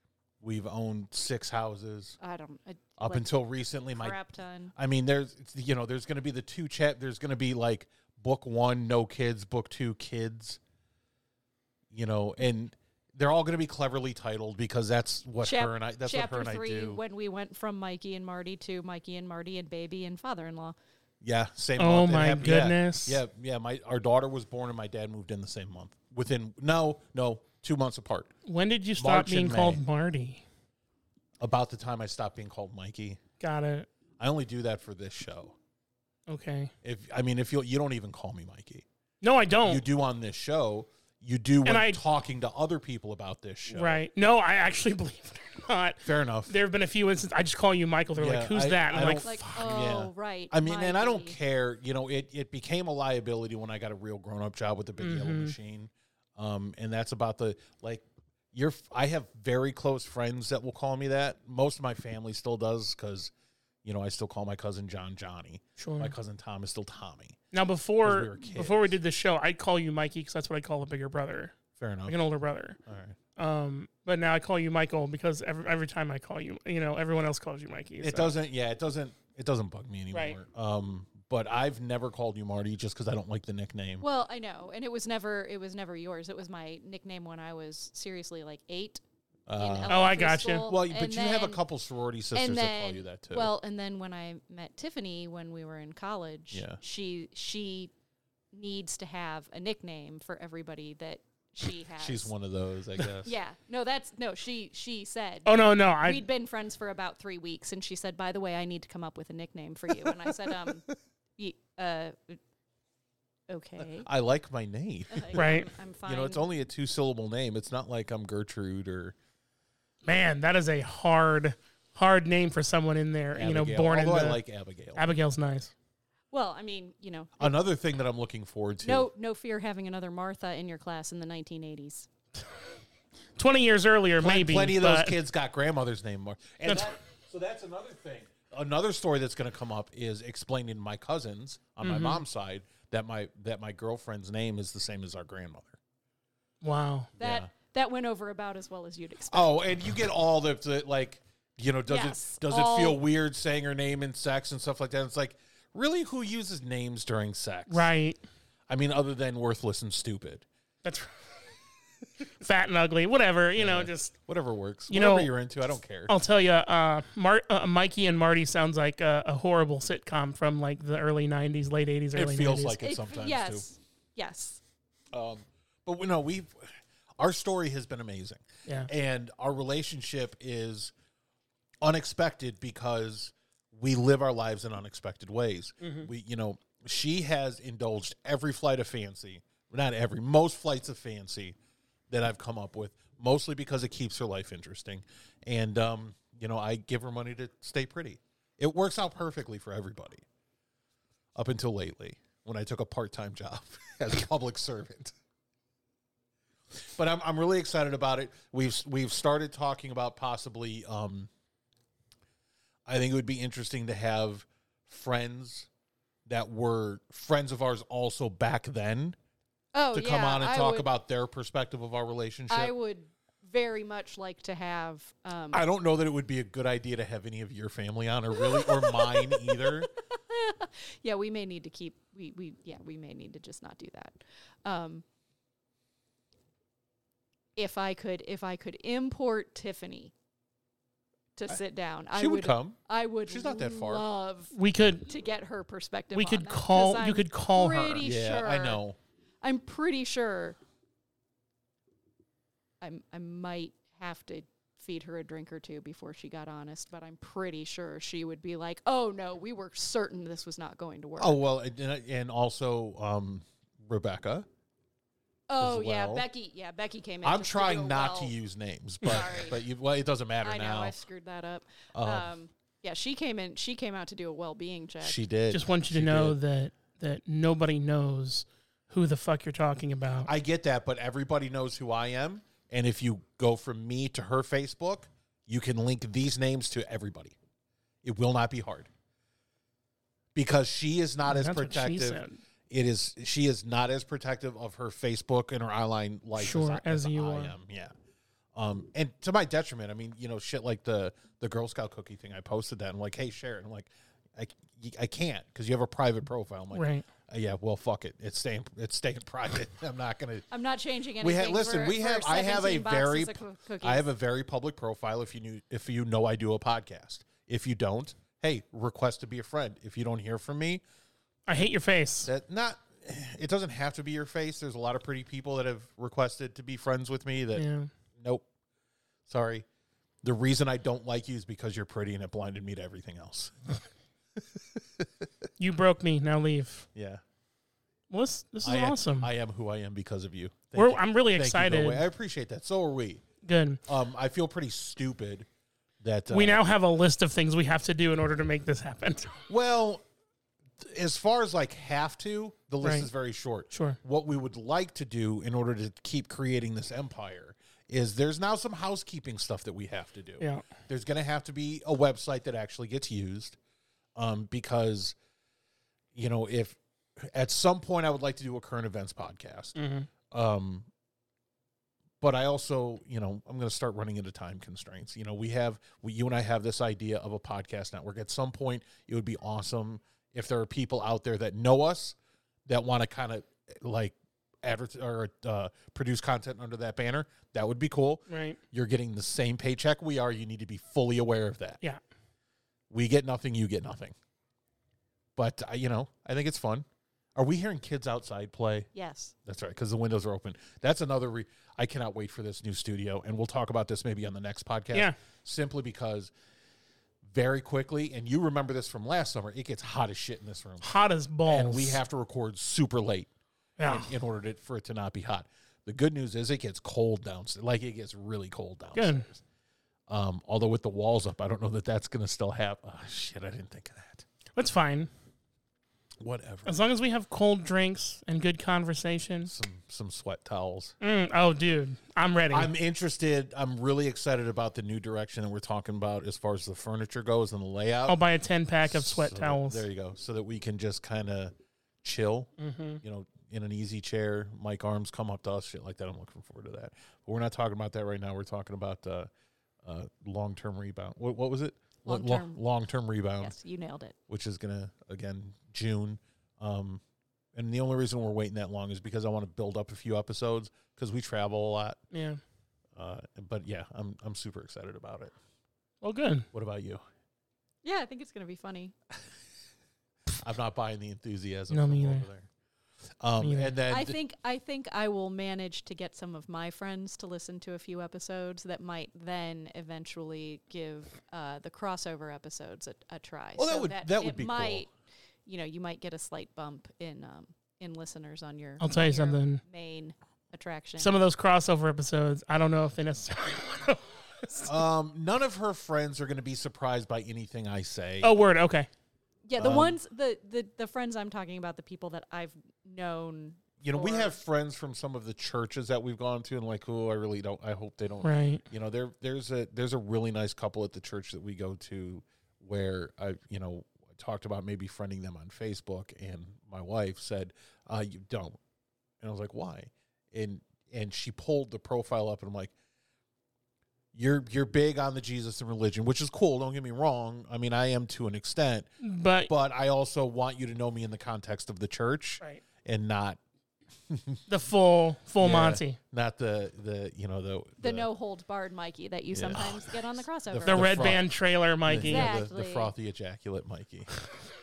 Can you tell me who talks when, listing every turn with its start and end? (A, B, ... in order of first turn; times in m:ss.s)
0:00.4-0:02.2 A
0:02.2-0:03.3 B
0:03.0-0:04.2 A
0:03.9-0:04.7 B
0:04.7-0:10.6 A
0:11.9-0:17.0 A
0:15.4-0:20.8 B
0:21.2-0:28.3 A
0:21.8-0:23.2 C
0:28.4-0:30.4 C
0:29.0-0:29.8 A
0:31.4-0:33.2 A
0:33.4-0:33.9 C
0:34.2-0:35.6 A
0:36.3-0:36.7 C
0:36.8-0:38.8 A
0:39.2-0:39.8 C
0:39.6-0:44.0 A
0:41.6-0:42.0 C
0:43.7-0:49.4 C
0:46.0-0:46.5 A
0:48.2-1:03.3 A
0:49.2-0:51.4 B
0:55.0-0:55.6 C
1:03.8-1:07.4 A
1:05.8-1:06.1 C
1:07.5-1:12.8 C
1:08.0-1:08.9 A
1:11.8-1:12.2 A
1:12.8-1:13.2 A
1:13.4-1:18.3 C
1:18.0-1:24.0 A
1:20.1-1:20.4 C
1:24.0-1:29.0 B
1:29.5-1:30.1 A
1:29.6-1:31.6 B
1:29.9-1:30.7 C
1:30.6-1:33.5 A
1:32.3-1:37.9 B
1:36.5-1:36.8 A
1:38.5-1:42.3 B
1:42.0-1:43.3 A
1:43.2-1:52.4 B
1:45.4-1:46.2 C
1:53.5-1:54.1 B
1:53.8-1:59.1 A
1:55.1-1:56.4 B
1:55.4-1:55.7 C
2:00.0-2:04.4 C
2:03.3-2:05.0 A
2:04.9-2:05.7 C
2:06.3-2:07.5 B
2:07.4-2:09.1 A
2:08.8-2:12.1 B
2:13.4-2:15.2 C
2:14.2-2:25.8 A
2:16.6-2:16.9 C
2:21.8-2:22.2 C
2:26.6-2:27.1 C
2:27.2-2:27.5 A
2:27.2-2:29.5 B
2:29.3-2:37.9 A
2:31.9-2:33.0 B
2:37.7-2:38.2 C
2:38.7-2:40.4 A
2:40.8-2:41.2 C
2:42.4-2:44.1 C
2:43.6-2:46.1 A
2:44.9-2:45.3 C
2:46.1-2:52.8 C
2:52.1-2:53.6 A
2:52.8-2:54.6 B
2:55.1-3:00.9 A
3:01.8-3:11.6 A
3:05.8-3:06.1 C
3:12.1-3:20.2 A
3:21.4-3:25.1 A
3:26.9-3:31.3 A
3:32.8-3:35.7 A
3:36.2-3:39.2 A
3:39.7-3:40.9 B
3:39.9-3:42.7 A
3:42.5-3:45.6 B
3:45.5-3:49.9 A
3:48.4-3:55.0 B
3:57.6-4:00.1 B
4:01.4-4:04.5 B
4:02.1-4:04.0 A
4:04.5-4:05.1 C
4:05.1-4:08.8 B
4:06.1-4:08.0 C
4:08.0-4:09.0 A
4:09.4-4:10.6 B
4:12.8-4:21.4 B
4:21.2-4:24.5 A
4:25.5-4:28.3 B
4:25.6-4:26.2 A
4:27.2-4:30.9 A
4:29.0-4:29.6 B
4:30.4-4:35.2 B
4:31.9-4:32.3 A
4:35.0-4:36.4 A
4:35.5-4:40.3 C
4:40.2-4:47.3 A
4:48.0-4:48.9 A
4:50.3-4:57.9 A
4:51.2-4:52.4 C
4:56.4-4:57.5 C
4:58.5-5:10.5 A
5:06.7-5:07.0 C
5:10.5-5:14.0 B
5:11.2-5:20.8 A
5:21.4-5:22.3 C
5:22.2-5:28.5 A
5:27.5-5:27.9 C
5:29.3-5:29.6 A
5:30.2-5:33.7 A
5:34.6-5:35.0 A
5:35.6-5:36.9 C
5:36.9-5:37.2 A
5:38.1-5:39.3 C
5:38.6-5:43.2 A
5:40.7-5:42.0 C
5:43.4-5:43.8 C
5:43.8-5:45.4 A
5:46.0-5:46.6 A
5:46.3-5:49.4 C
5:49.5-5:50.0 A
5:50.8-6:03.6 A
5:52.8-5:53.1 C
5:53.7-5:54.0 C
6:00.4-6:00.6 C
6:04.2-6:05.2 A
6:06.1-6:09.8 A
6:09.8-6:10.1 C
6:10.3-6:10.9 A
6:12.2-6:31.8 A
6:28.3-6:28.6 C
6:32.9-6:34.1 A
6:35.4-6:36.8 A
6:37.4-6:38.9 A
6:38.9-6:39.3 B
6:39.4-6:46.3 A
6:47.2-6:50.9 A
6:50.8-6:52.0 C
6:51.4-6:53.3 A
6:53.8-6:54.1 C
6:53.8-6:59.4 A
6:58.9-6:59.3 C
7:00.1-7:04.2 A
7:04.6-7:05.1 C
7:06.2-7:06.8 A
7:06.6-7:09.5 C
7:09.4-7:11.0 A
7:11.0-7:12.7 C
7:12.5-7:18.2 A
7:18.1-7:19.8 C
7:18.8-7:22.5 A
7:22.6-7:23.0 C
7:23.0-7:29.3 A
7:29.8-7:33.5 A
7:32.0-7:32.6 B
7:33.4-7:34.1 B
7:34.3-7:37.0 A
7:37.5-7:42.0 A
7:42.1-7:42.4 C
7:43.0-7:45.3 A
7:46.0-7:46.5 C
7:46.5-7:47.0 A
7:47.8-7:48.9 B
7:50.4-7:52.5 A
7:51.7-7:52.2 C
7:53.2-7:54.2 A
7:53.4-7:53.8 C
7:53.9-8:04.9 B
8:03.6-8:04.8 A
8:05.4-8:11.1 B
8:08.8-8:09.6 C
8:11.0-8:14.7 C
8:14.6-8:18.3 A
8:18.2-8:18.9 C
8:19.4-8:24.4 B
8:19.6-8:20.0 A
8:23.8-8:38.6 A
8:28.2-8:28.6 C
8:39.2-8:42.7 A
8:44.1-8:48.9 A
8:49.0-8:49.5 C
8:49.4-8:53.4 A
8:54.1-8:54.4 A
8:54.5-8:56.0 C
8:55.4-8:58.1 A
8:57.8-9:01.1 B
8:59.3-9:00.0 A
9:00.5-9:01.2 A
9:00.6-9:02.3 C
9:01.8-9:04.1 A
9:02.0-9:02.9 B